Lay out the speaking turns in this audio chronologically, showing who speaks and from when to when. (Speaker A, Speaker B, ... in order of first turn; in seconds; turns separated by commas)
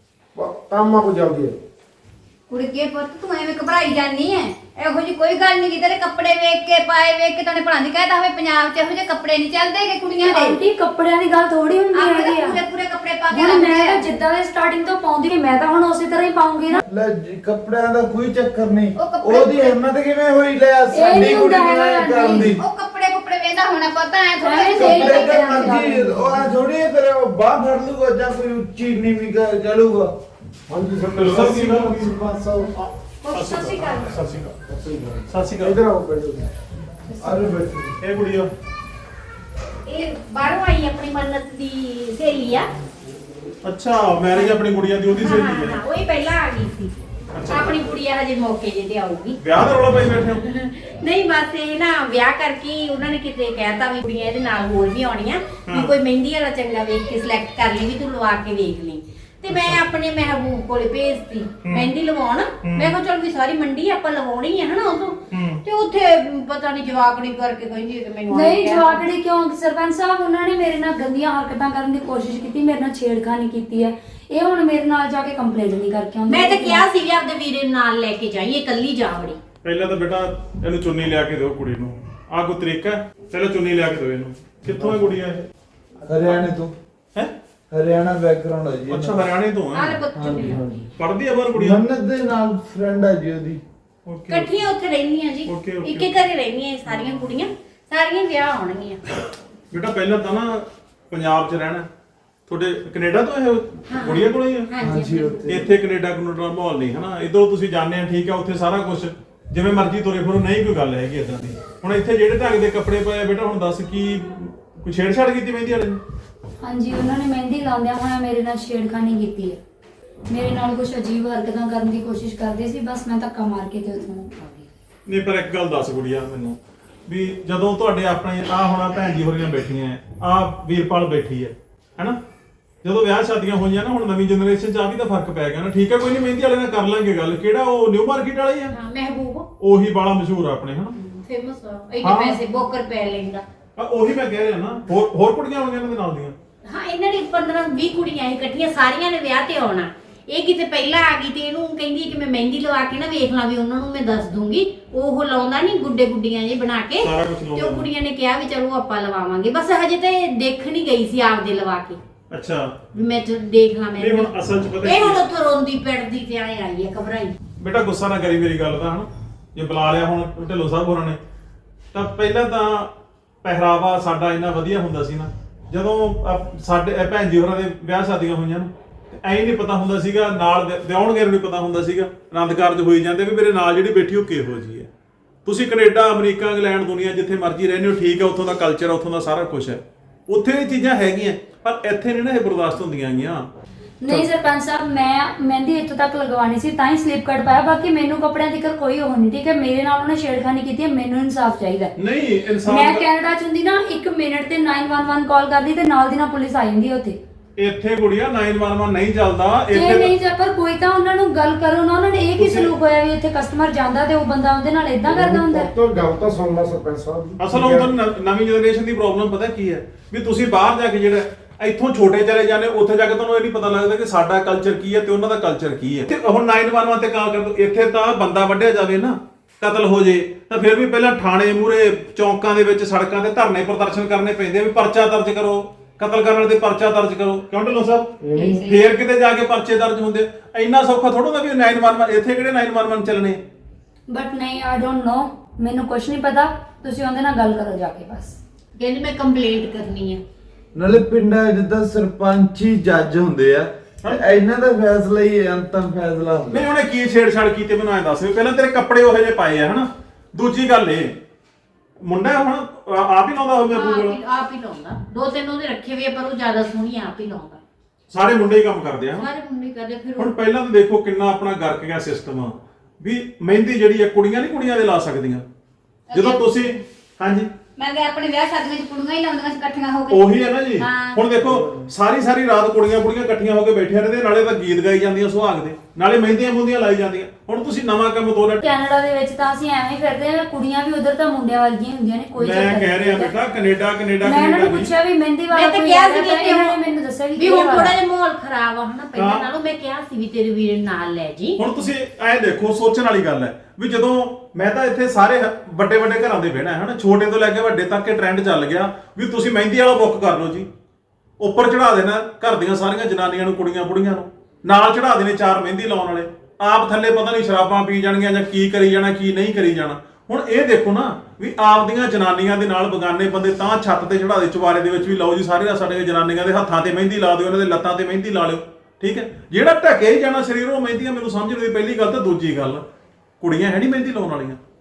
Speaker A: 0.3-1.6, Speaker B: 2.5-10.5, Speaker C: 10.2-12.6, Speaker B: 12.0-14.0, Speaker C: 13.3-16.8, Speaker D: 16.9-22.6, Speaker B: 19.0-19.8, Speaker C: 20.9-22.5, Speaker B: 22.6-25.5, Speaker C: 24.4-26.5, Speaker D: 24.7-30.1, Speaker A: 30.7-32.7, Speaker E: 31.1-32.1, Speaker C: 33.2-34.1, Speaker E: 33.3-34.6, Speaker A: 34.7-36.5, Speaker E: 35.3-35.8, Speaker D: 37.2-37.9, Speaker E: 38.0-38.5, Speaker F: 39.9-42.7, Speaker E: 43.6-45.8, Speaker F: 44.3-44.6, Speaker F: 45.1-46.9, Speaker E: 47.3-47.8, Speaker F: 47.5-49.4, Speaker E: 49.4-50.5, Speaker F: 50.4-69.0, Speaker E: 55.7-55.9, Speaker E: 59.5-59.8, Speaker E: 61.6-61.9, Speaker E: 62.6-62.9, Speaker E: 65.3-65.6, Speaker C: 68.3-76.8, Speaker F: 76.3-79.4, Speaker E: 79.6-85.5, Speaker D: 86.1-86.7, Speaker D: 87.7-89.2, Speaker E: 88.9-90.0, Speaker F: 89.7-90.6, Speaker D: 90.2-90.9, Speaker E: 91.0-91.8, Speaker D: 91.5-93.6, Speaker E: 94.1-94.5, Speaker F: 94.3-99.0, Speaker E: 95.5-96.1, Speaker E: 99.7-101.9, Speaker E: 102.5-104.7, Speaker F: 103.9-105.5, Speaker D: 104.8-105.7, Speaker E: 105.5-116.0, Speaker C: 116.6-119.6, Speaker C: 120.3-124.7, Speaker E: 125.1-132.2, Speaker E: 132.8-138.7, Speaker F: 138.7-139.5, Speaker E: 139.6-141.0, Speaker F: 141.0-143.4, Speaker E: 142.0-142.4, Speaker E: 143.8-146.3, Speaker F: 146.7-162.0, Speaker E: 157.0-157.9, Speaker E: 162.3-162.7, Speaker F: 162.9-164.3, Speaker E: 164.0-165.2, Speaker F: 164.8-167.3, Speaker E: 167.6-171.2, Speaker E: 171.9-172.9, Speaker E: 173.4-184.9, Speaker E: 185.4-193.5, Speaker C: 194.0-201.9, Speaker E: 202.0-203.1, Speaker C: 202.7-207.2, Speaker E: 207.6-210.1, Speaker C: 209.7-215.7, Speaker E: 212.4-212.7, Speaker A: 215.1-217.9, Speaker E: 217.4-243.4, Speaker A: 238.2-238.6, Speaker C: 238.3-238.8, Speaker C: 244.1-248.4, Speaker F: 248.8-250.2, Speaker D: 250.8-256.7, Speaker E: 254.0-254.3, Speaker E: 256.5-261.2, Speaker E: 262.0-264.2, Speaker F: 263.7-267.6, Speaker E: 268.1-269.3, Speaker F: 269.2-270.3, Speaker E: 270.2-275.5, Speaker B: 276.1-276.4, Speaker E: 276.1-277.5, Speaker B: 277.8-281.2, Speaker E: 280.1-288.6, Speaker C: 288.6-293.3, Speaker E: 292.4-294.9, Speaker C: 294.2-297.9, Speaker F: 295.5-296.8, Speaker F: 297.4-301.6, Speaker E: 299.2-299.4, Speaker E: 301.6-310.7, Speaker E: 311.4-332.8, Speaker E: 333.4-334.6